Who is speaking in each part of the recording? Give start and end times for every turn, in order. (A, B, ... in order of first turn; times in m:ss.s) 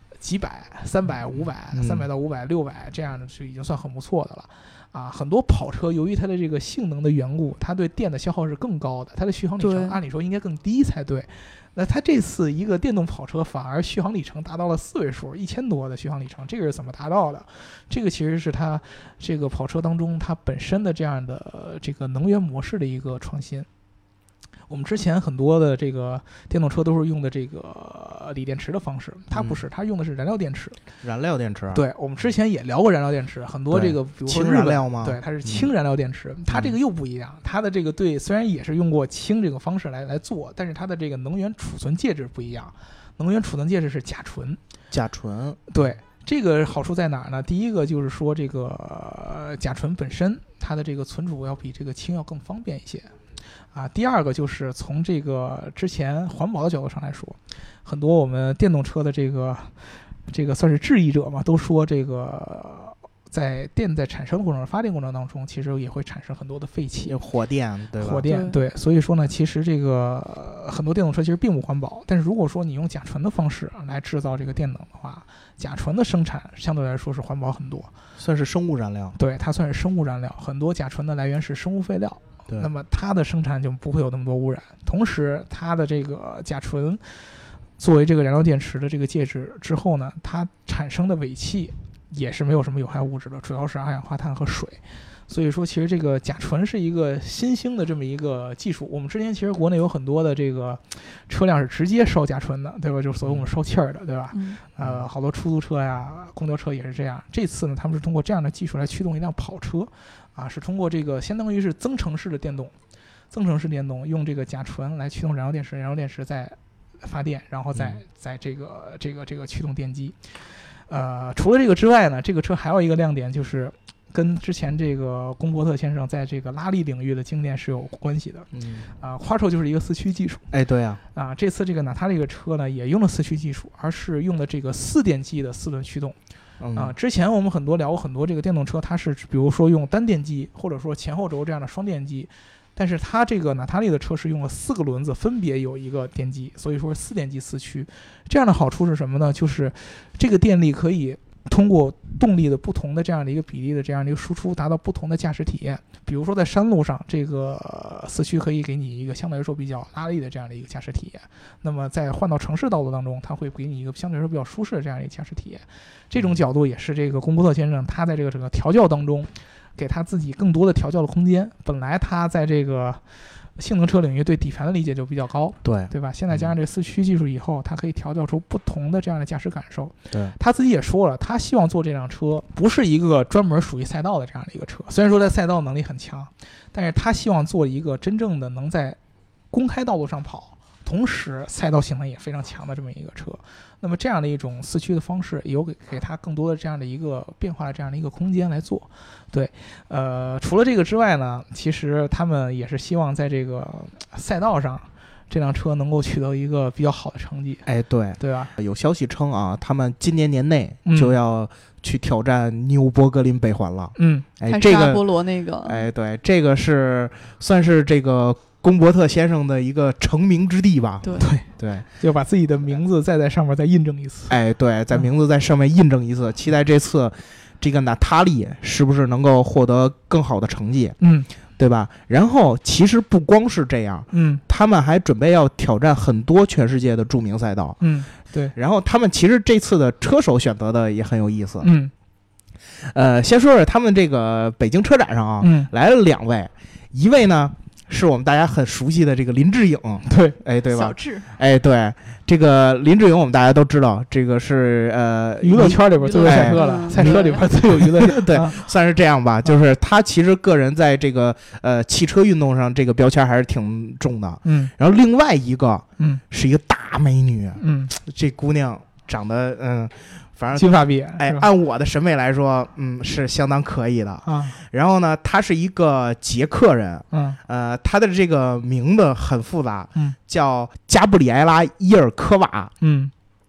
0:00.2-0:23.7 A
0:01.7-0:02.1 B
0:09.6-0:10.0 C
0:24.7-0:30.8 A
0:31.0-0:31.8 B
0:31.7-0:44.6 A
0:33.7-0:35.7 B
0:36.5-0:36.8 B
0:44.9-0:45.6 B
0:45.7-0:53.1 A
0:53.7-1:07.1 A
1:07.1-1:08.2 B
1:08.0-1:17.9 A
1:08.2-1:08.6 C
1:18.2-1:19.1 B
1:19.2-1:27.0 A
1:27.8-1:52.7 A
1:44.3-1:44.6 C
1:53.3-2:00.2 A
2:00.9-2:08.5 A
2:08.5-2:08.9 B
2:09.0-2:10.5 A
2:10.5-2:11.0 B
2:11.1-2:16.1 A
2:16.6-2:16.9 B
2:16.7-2:53.0 A
2:53.6-3:09.0 A
2:55.6-2:56.5 B
3:09.5-3:27.6 A
3:27.6-3:35.1 B
3:28.2-3:28.5 A
3:30.8-3:31.1 A
3:34.0-3:34.3 A
3:34.4-3:35.8 C
3:35.6-3:41.8 B
3:41.0-3:41.3 C
3:41.2-3:44.3 A
3:44.3-3:51.0 B
3:51.0-3:51.3 A
3:51.6-3:57.8 B
3:54.1-3:54.4 A
3:57.8-3:58.5 A
3:58.5-4:01.7 B
4:01.6-4:01.9 A
4:02.8-4:42.7 B
4:05.4-4:05.7 A
4:10.0-4:10.4 A
4:10.7-4:11.3 C
4:15.4-4:18.6 A
4:16.0-4:17.4 C
4:24.4-4:24.7 A
4:27.6-4:28.0 A
4:30.5-4:31.5 A
4:34.2-4:34.6 A
4:37.1-4:37.4 A
4:42.8-4:43.1 A